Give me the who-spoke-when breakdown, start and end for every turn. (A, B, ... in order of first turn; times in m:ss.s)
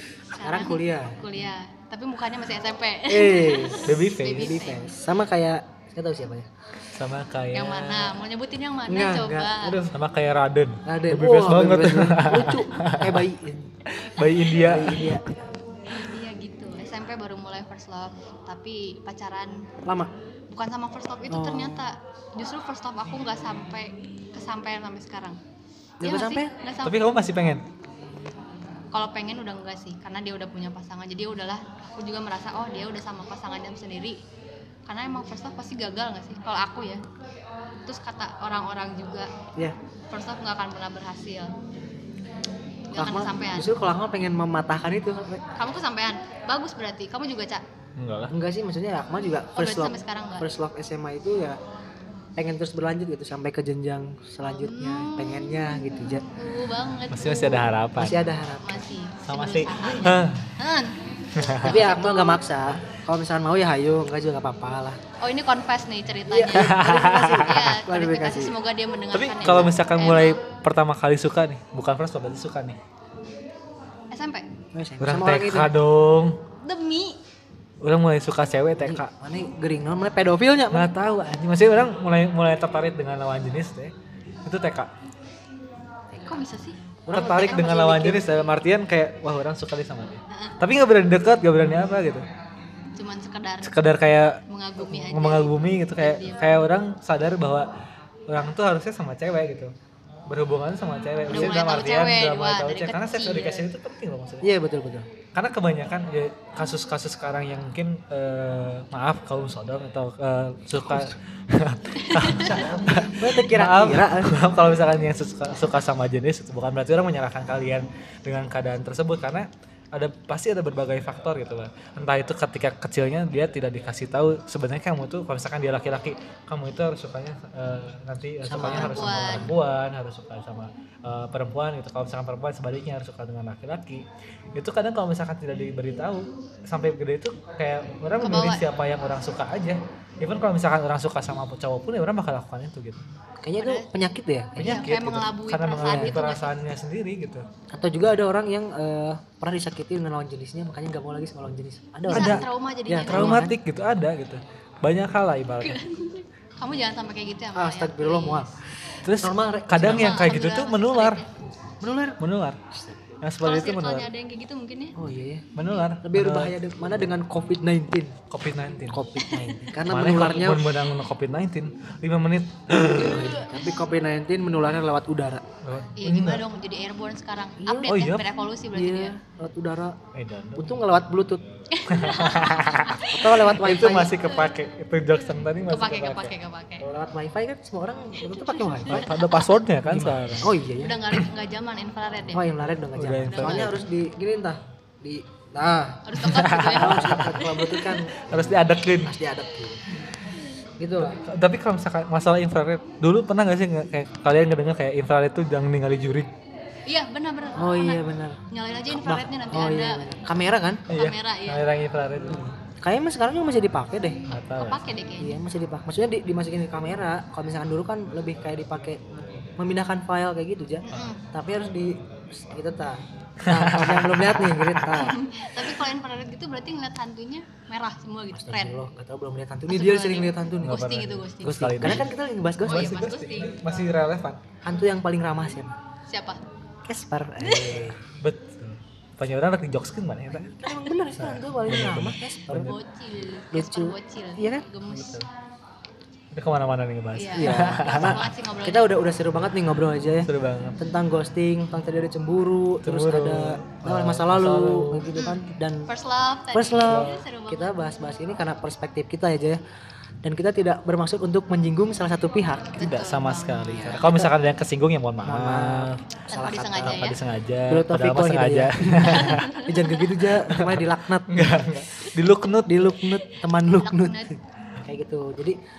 0:00.3-0:04.9 A
0:00.4-0:01.2 B
0:03.1-0:06.5 B
0:03.8-0:04.6 C
0:06.9-0:08.1 C
0:07.5-0:09.8 A
0:08.9-0:09.9 B
0:09.9-0:13.2 C
0:10.8-0:13.7 B
0:13.9-0:15.2 C
0:14.6-0:15.3 B
0:15.9-0:19.7 A
0:19.8-0:20.1 B
0:20.5-0:25.4 A
0:21.3-0:21.8 B
0:26.0-0:26.5 B
0:26.0-0:27.0 A
0:26.8-0:27.6 C
0:28.9-0:34.2 A
0:34.9-0:37.0 A
0:37.9-0:39.3 A
0:40.1-0:41.6 A
0:42.9-0:43.7 A
0:43.0-0:45.4 B
0:45.6-0:47.6 A
0:48.0-0:48.4 C
0:48.3-0:51.6 B
0:49.6-0:50.5 A
0:52.4-0:56.3 B
0:54.4-0:57.7 A
0:57.1-0:58.3 C
0:58.0-0:58.8 B
0:58.6-1:02.4 A
0:59.3-1:00.4 C
1:01.4-1:01.8 C
1:01.6-1:05.0 B
1:05.2-1:10.4 A
1:06.3-1:08.6 B
1:06.5-1:07.7 C
1:09.1-1:12.8 C
1:14.1-1:14.5 A
1:14.7-1:15.7 B
1:15.0-1:16.4 C
1:16.6-1:17.2 A
1:17.8-1:19.1 C
1:18.8-1:20.9 B
1:20.7-1:23.9 C
1:24.4-1:24.9 C
1:26.1-1:26.8 A
1:27.1-1:28.2 B
1:27.1-1:32.3 C
1:30.3-1:30.6 A
1:33.0-1:33.8 A
1:33.6-1:37.7 C
1:34.5-1:36.6 A
1:38.3-1:39.7 C
1:40.3-1:44.5 C
1:41.3-1:43.7 A
1:44.4-1:45.1 B
1:45.3-2:14.0 C
1:52.0-1:52.7 A
1:52.4-1:54.4 B
2:08.4-2:09.5 B
2:08.7-2:09.5 A
2:14.6-2:23.0 C
2:18.2-2:18.7 A
2:23.4-2:24.9 B
2:23.6-2:23.9 A
2:24.6-2:27.4 C
2:24.6-2:26.5 A
2:25.8-2:26.2 B
2:27.7-2:33.6 B
2:32.1-2:33.5 A
2:32.1-2:32.5 C
2:33.1-2:35.8 C
2:35.6-2:38.5 A
2:37.6-2:38.5 B
2:39.0-2:41.2 C
2:39.2-2:40.2 B
2:39.8-2:41.3 A
2:41.8-2:42.2 B
2:42.2-2:42.6 C
2:42.7-2:43.0 B
2:43.2-2:44.1 C
2:43.4-2:45.0 A
2:45.0-2:45.5 B
2:45.6-2:46.8 C
2:46.0-2:48.2 B
2:48.3-2:49.0 C
2:48.9-2:50.7 B
2:49.3-2:49.6 A
2:49.8-2:53.3 C
2:52.8-2:55.4 B
2:52.8-2:53.6 A
2:55.6-2:56.4 C
2:56.0-2:59.1 A
2:57.6-2:58.0 B
2:57.9-2:58.3 C
2:58.7-3:00.0 B
3:00.1-3:00.8 C
3:00.6-3:01.4 B
3:01.7-3:03.5 A
3:01.9-3:06.4 C
3:03.1-3:04.2 B
3:05.7-3:06.9 A
3:06.8-3:09.2 B
3:08.2-3:09.6 A
3:08.9-3:10.6 C
3:09.8-3:11.0 B
3:10.8-3:12.5 A
3:12.3-3:16.2 B
3:12.9-3:13.8 C
3:13.2-3:13.7 A
3:16.0-3:17.8 A
3:16.2-3:19.2 C
3:16.7-3:18.4 B
3:19.0-3:19.8 B
3:20.8-3:21.2 B
3:21.2-3:26.3 C
3:26.9-3:30.0 A
3:27.6-3:28.4 B
3:28.9-3:30.9 B
3:30.9-3:31.6 A
3:30.9-3:32.5 C
3:32.3-3:34.3 B
3:34.3-3:34.9 C
3:34.6-3:35.4 A
3:35.2-3:39.0 B
3:39.6-3:45.2 B
3:40.8-3:41.2 A
3:43.4-3:45.1 C
3:45.0-3:48.8 A
3:48.3-3:50.9 B
3:49.7-3:52.0 A
3:50.6-3:52.1 C
3:51.4-3:53.0 B
3:52.6-3:53.6 A
3:52.7-3:54.4 C
3:54.6-3:55.8 B
3:56.1-3:56.4 A
3:56.9-3:58.0 B
3:57.4-3:57.8 A
3:58.2-4:00.5 C
4:00.3-4:02.7 B
4:00.7-4:00.9 A
4:01.2-4:02.8 C
4:02.6-4:05.2 A
4:03.5-4:04.7 B
4:04.9-4:05.2 C
4:06.3-4:08.3 C
4:07.1-4:08.9 A
4:07.4-4:15.9 B
4:10.2-4:10.8 C
4:12.8-4:15.1 C
4:15.1-4:17.8 A
4:16.5-4:19.6 B
4:16.8-4:17.2 C
4:20.2-4:22.8 B
4:22.8-4:24.2 A
4:22.8-4:29.6 C
4:25.2-4:27.0 B
4:26.3-4:27.2 A
4:27.7-4:31.6 B
4:29.0-4:30.0 A
4:30.4-4:33.1 C
4:32.7-4:35.6 B
4:33.7-4:34.3 A